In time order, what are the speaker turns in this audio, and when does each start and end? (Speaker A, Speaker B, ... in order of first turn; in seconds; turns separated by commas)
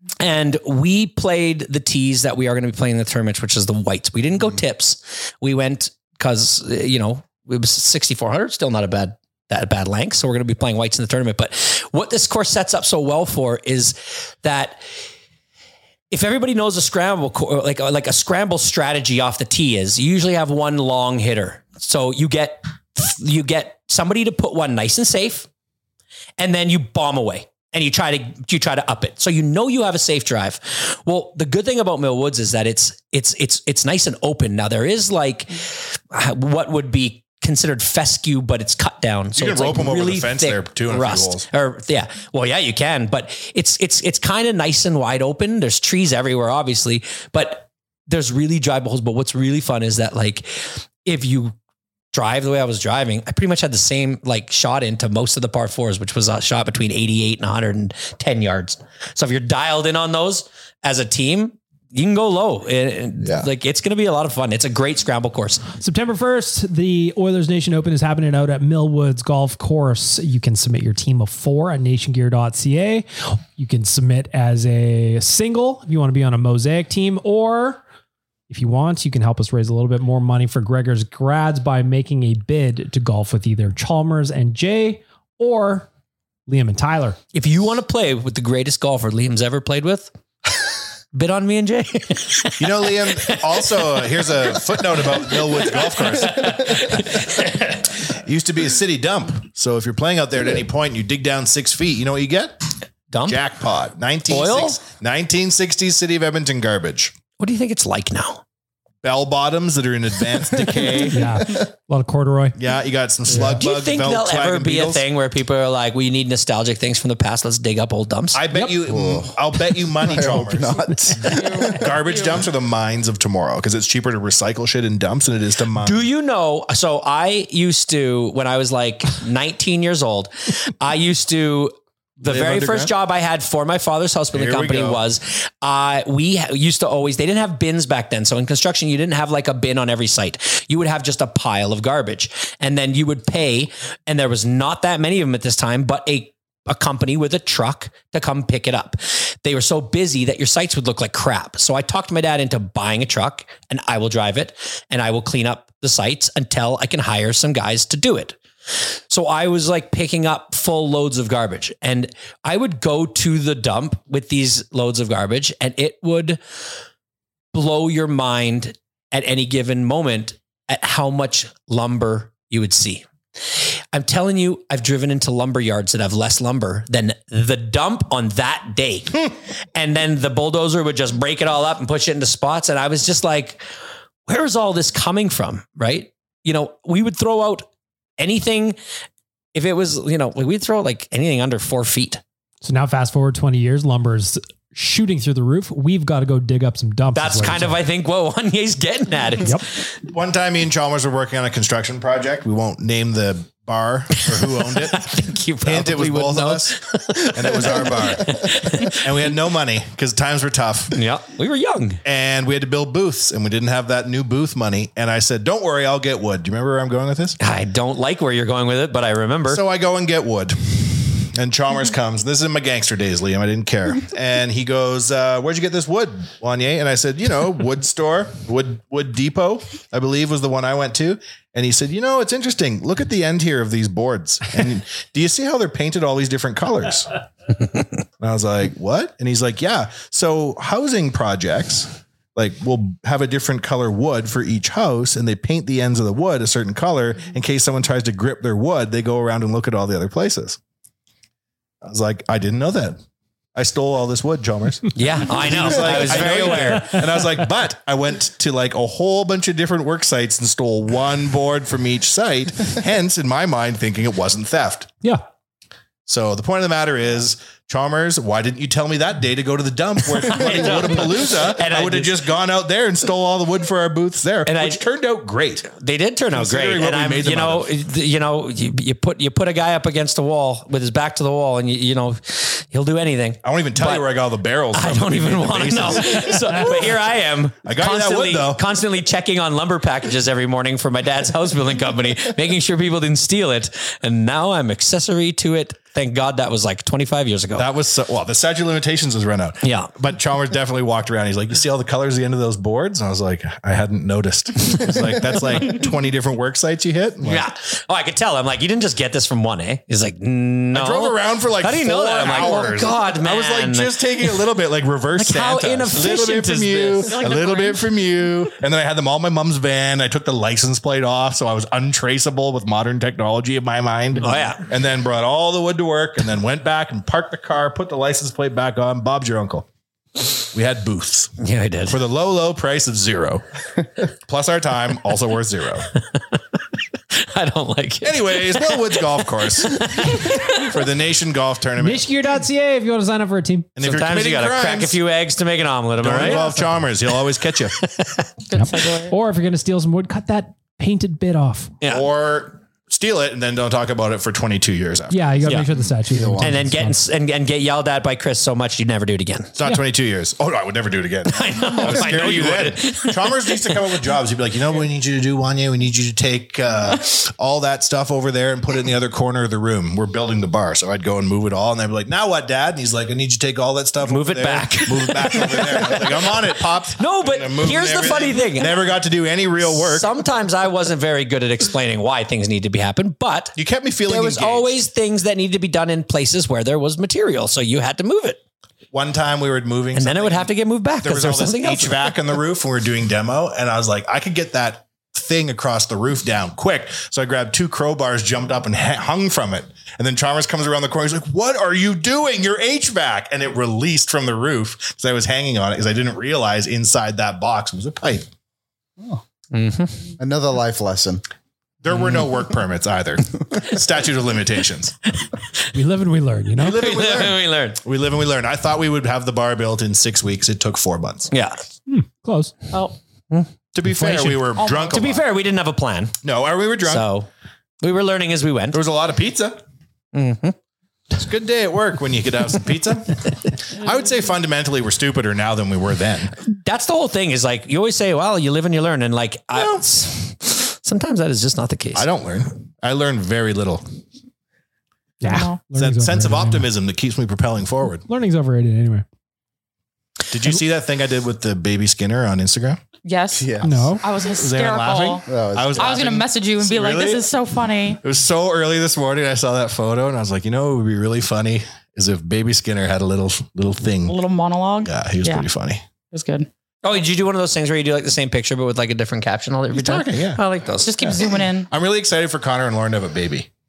Speaker A: 0.2-14.8, Speaker A: 16.1-25.5, Speaker A: 26.4-51.5, Speaker B: 39.3-41.5, Speaker A: 52.1-65.6, Speaker C: 63.2-63.5, Speaker D: 65.8-77.8, Speaker D: 78.5-85.9, Speaker D: 86.5-87.2, Speaker A: 87.3-90.1, Speaker A: 91.1-97.8, Speaker B: 92.6-97.2, Speaker B: 98.1-102.5, Speaker A: 103.1-103.4, Speaker B: 103.2-107.1, Speaker A: 104.3-104.8, Speaker A: 107.4-108.4, Speaker B: 109.0-111.2, Speaker D: 111.1-112.6, Speaker B: 112.6-115.0, Speaker D: 113.3-113.6, Speaker A: 113.6-118.4, Speaker B: 118.3-126.0, Speaker C: 118.8-119.3, Speaker C: 119.9-121.8, Speaker E: 121.3-122.5, Speaker A: 125.8-158.4, Speaker B: 132.2-132.9, Speaker B: 134.3-135.0, Speaker A: 159.1-166.4, Speaker A: 167.5-173.0, Speaker A: 173.9-183.6, Speaker A: 184.3-187.7, Speaker A: 188.2-188.8, Speaker A: 189.5-192.2, Speaker D: 192.6-197.8, Speaker A: 197.1-199.9, Speaker B: 200.1-205.1, Speaker A: 204.2-209.0, Speaker B: 205.6-206.8, Speaker B: 207.3-210.9, Speaker A: 210.9-212.0, Speaker B: 212.0-217.4, Speaker A: 217.4-219.6, Speaker B: 219.5-237.1, Speaker B: 238.2-250.6, Speaker B: 251.8-253.0, Speaker B: 253.5-264.9, Speaker A: 254.9-257.0, Speaker B: 266.1-275.7, Speaker A: 270.2-272.2, Speaker A: 274.4-274.8, Speaker A: 275.8-284.0, Speaker B: 276.3-277.7, Speaker B: 283.4-287.0, Speaker A: 284.7-297.6, Speaker B: 287.6-288.6, Speaker B: 297.6-307.4, Speaker A: 299.6-299.9, Speaker A: 307.2-314.4, Speaker B: 310.7-329.6, Speaker A: 315.1-317.2, Speaker E: 317.0-317.9, Speaker A: 324.2-324.6, Speaker B: 330.5-331.3, Speaker A: 331.4-332.0, Speaker B: 331.9-333.4, Speaker B: 334.1-335.9, Speaker A: 337.1-340.8, Speaker B: 338.0-342.1, Speaker D: 341.8-343.7, Speaker B: 343.8-345.0, Speaker A: 343.8-346.5, Speaker B: 346.0-347.8, Speaker D: 346.2-346.7, Speaker A: 347.8-348.3, Speaker E: 348.5-349.1, Speaker D: 348.5-351.7, Speaker B: 351.9-355.2, Speaker D: 355.1-356.9, Speaker C: 356.1-356.6, Speaker A: 356.4-359.5, Speaker B: 359.6-380.1, Speaker A: 361.3-363.8, Speaker A: 374.1-378.8, Speaker A: 379.6-383.6, Speaker B: 383.6-384.7, Speaker A: 384.1-388.4, Speaker B: 388.9-408.3, Speaker A: 389.9-392.1, Speaker A: 409.5-410.0, Speaker C: 410.2-411.2, Speaker B: 411.8-414.9, Speaker D: 415.7-416.8, Speaker B: 416.6-421.3, Speaker A: 416.8-417.8, Speaker A: 421.3-421.6, Speaker D: 421.9-422.5, Speaker B: 423.7-425.2, Speaker D: 423.9-424.4, Speaker E: 424.6-425.0, Speaker A: 424.9-426.2, Speaker B: 426.2-427.1, Speaker A: 426.8-427.3, Speaker A: 427.8-428.8, Speaker B: 428.7-429.6, Speaker A: 430.1-430.6, Speaker B: 431.1-436.3, Speaker A: 436.5-442.1, Speaker B: 439.5-439.8, Speaker B: 441.9-443.8, Speaker D: 445.2-446.7, Speaker E: 445.2-445.6, Speaker B: 445.7-448.0, Speaker D: 448.1-449.0, Speaker B: 450.3-452.8, Speaker E: 453.0-455.2, Speaker C: 453.3-454.0, Speaker D: 453.6-454.0, Speaker B: 454.3-457.3, Speaker C: 455.2-455.9, Speaker E: 455.7-458.0, Speaker B: 458.0-464.2, Speaker E: 464.1-465.5, Speaker B: 464.8-465.8, Speaker E: 466.1-466.5, Speaker A: 466.8-471.0, Speaker B: 469.7-470.4, Speaker E: 470.8-471.7, Speaker B: 471.0-473.5